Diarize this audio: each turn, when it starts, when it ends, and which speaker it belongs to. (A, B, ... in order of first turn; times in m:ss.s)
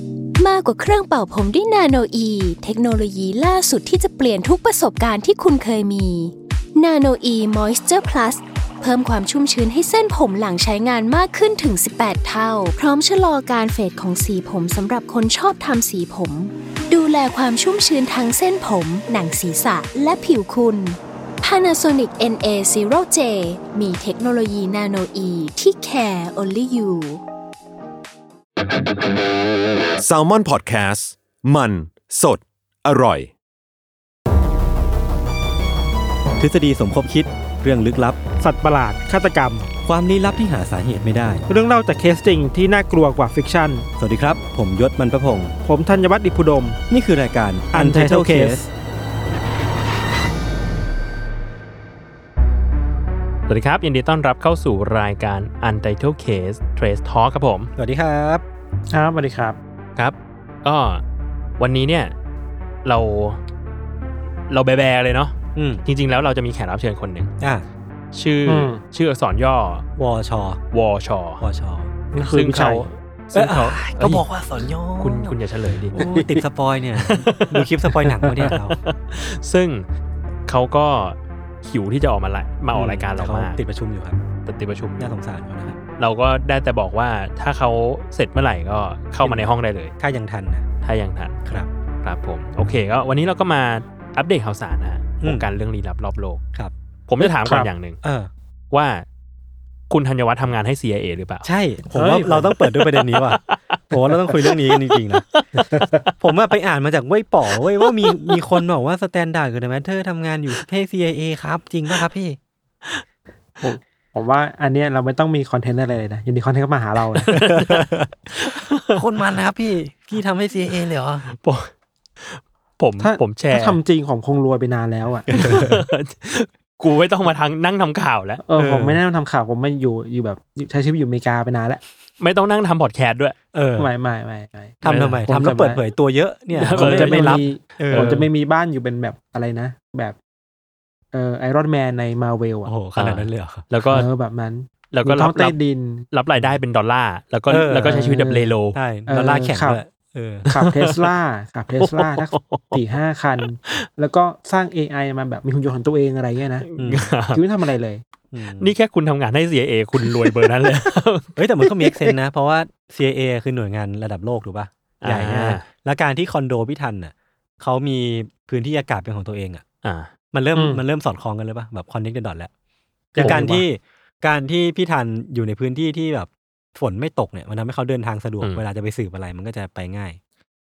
0:00.4-0:27.2 A
0:30.0-0:33.3 B
0:36.4-0:38.2 C
0:38.4-0:39.7 D
0:39.8-0:41.4 C
0:41.5-0:43.9 D
0:44.0-0:45.5 C
0:45.6-0:46.8 D
0:46.9-0:48.6 C
0:47.7-0:48.7 D
0:53.5-0:57.7 E
0:57.8-0:58.4 C
0:58.9-0:59.6 D
1:00.0-1:01.0 E
1:01.6-1:02.1 E
1:02.8-1:03.4 E
1:04.5-1:05.3 E
1:05.5-1:05.8 C
1:05.8-1:07.3 E
1:08.1-1:09.8 E
1:08.5-1:08.8 D
1:10.0-1:10.6 C
1:10.7-1:11.4 E
1:11.4-1:11.9 C
1:12.1-1:12.8 D
1:12.2-1:14.2 E
1:13.3-1:15.4 C
1:15.0-1:16.0 E
1:15.9-1:18.8 C
1:15.9-1:16.4 D
1:17.1-1:17.7 E
1:18.0-1:18.5 D
1:18.8-1:19.8 E
1:20.5-1:23.6 E
1:22.7-1:24.2 C
1:24.4-1:25.1 E
1:25.0-1:25.8 C
1:26.0-1:29.9 E
1:29.2-1:30.6 C
1:30.8-1:31.3 E
1:32.0-1:36.4 E
1:37.1-1:38.0 E
1:37.2-1:37.7 D
1:38.0-1:38.3 C
1:38.7-1:39.0 E
1:39.9-1:41.4 E
1:41.4-1:45.6 C
1:41.9-1:42.5 D
1:42.6-1:45.6 E
1:46.2-1:52.4 C
1:47.6-1:48.6 E
1:53.6-1:57.3 D
1:57.1-1:59.0 E
1:57.3-1:58.1 C
1:58.9-2:01.3 C
2:01.3-2:01.7 E
2:02.2-2:03.8 E
2:03.0-2:05.5 D
2:05.3-2:05.8 C
2:05.3-2:08.4 E
2:08.5-2:11.8 D
2:08.6-2:09.0 C
2:12.2-2:13.4 E
2:13.5-2:13.9 C
2:13.8-2:15.8 D
2:14.8-2:18.2 C
2:14.8-2:15.2 E
2:16.6-2:18.3 E
2:16.7-2:20.2 D
2:21.1-2:22.7 D
2:22.6-2:23.7 C
2:23.0-2:24.1 E
2:23.9-2:26.0 D
2:24.9-2:25.6 E
2:26.1-2:28.8 E
2:27.5-2:28.1 C
2:27.8-2:28.5 D
2:28.7-2:30.5 C
2:29.1-2:29.8 D
2:30.5-2:36.6 D
2:30.5-2:31.1 E
2:31.8-2:32.8 E
2:36.6-2:37.4 E
2:36.8-2:37.1 C
2:37.3-2:38.0 D
2:38.3-2:38.7 C
2:38.6-2:41.3 E
2:41.4-2:49.6 C
2:41.8-2:42.1 D
2:45.0-2:45.6 E
2:49.8-2:50.1 E
2:50.3-2:52.5 C
2:50.5-2:50.8 D
2:53.1-2:53.6 D
2:53.2-3:00.2 C
2:53.2-2:53.5 E